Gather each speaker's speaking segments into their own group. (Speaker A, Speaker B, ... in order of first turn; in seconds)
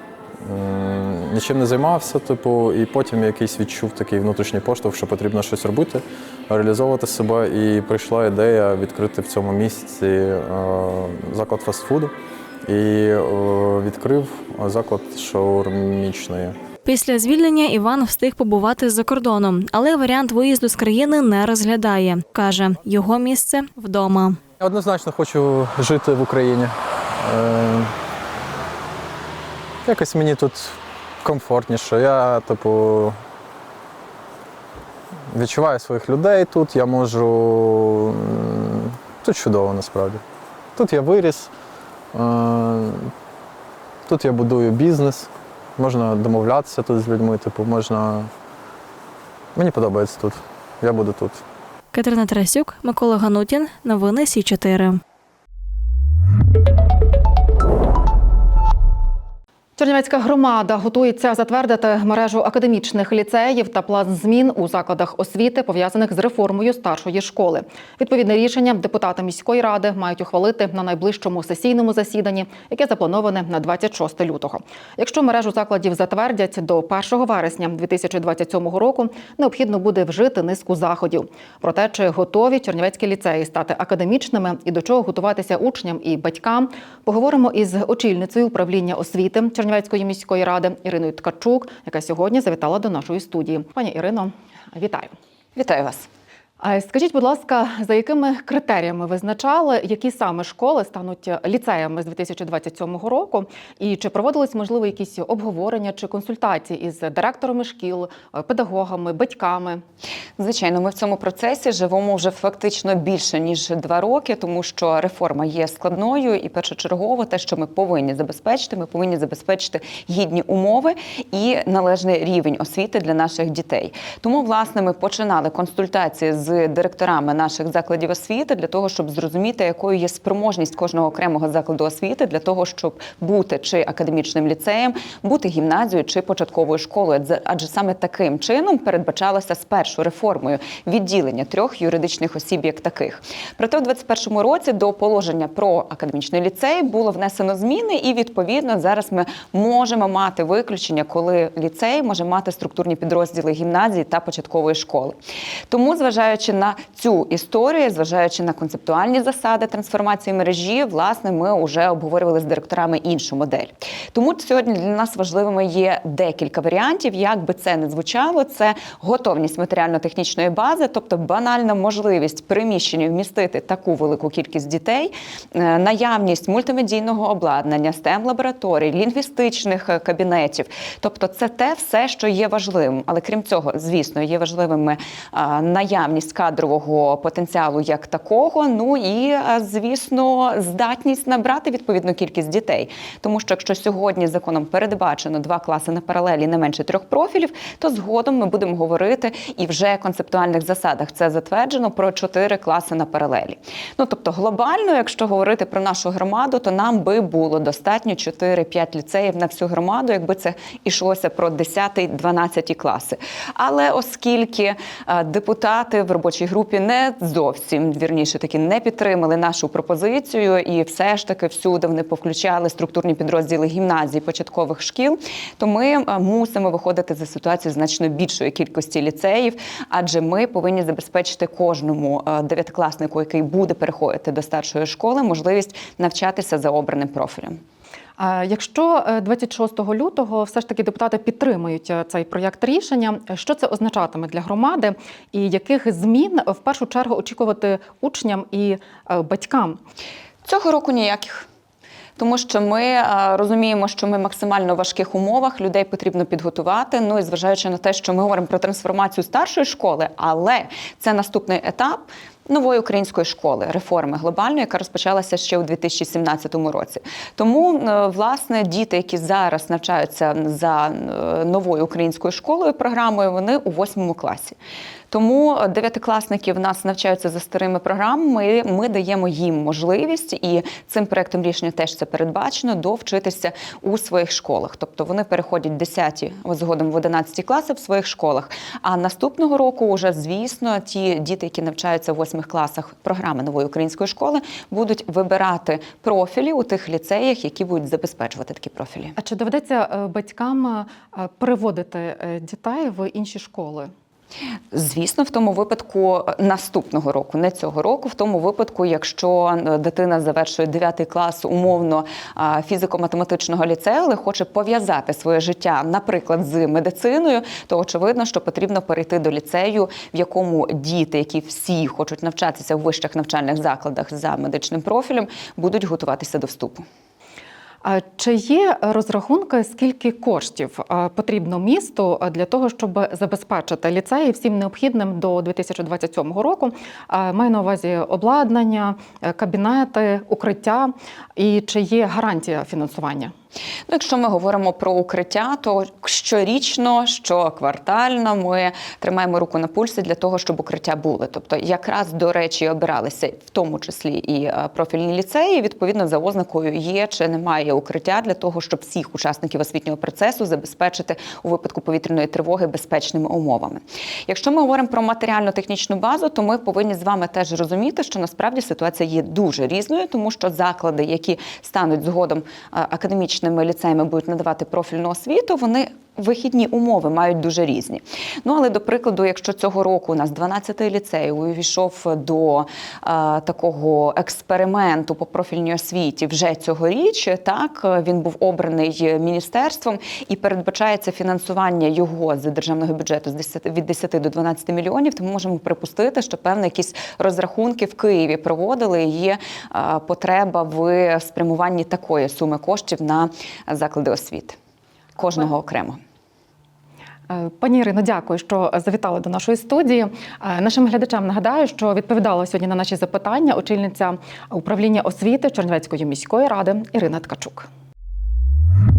Speaker A: 0.4-12.1, 12.6-16.6, 24.6-27.9, 29.8-33.2, 35.3-40.2, 40.8-41.5, 42.1-43.1, 44.0-48.3, 49.5-51.4
Speaker B: 16.8-24.4, 51.9-55.0
Speaker C: 59.8-95.1, 96.6-109.8, 238.2-249.8, 299.2-303.9, 327.8-343.3, 407.3-417.7
Speaker D: 95.5-96.1, 110.4-155.1, 155.7-237.6, 250.4-251.4, 252.2-274.6, 275.1-299.1, 304.7-326.9, 343.9-404.6, 405.2-406.0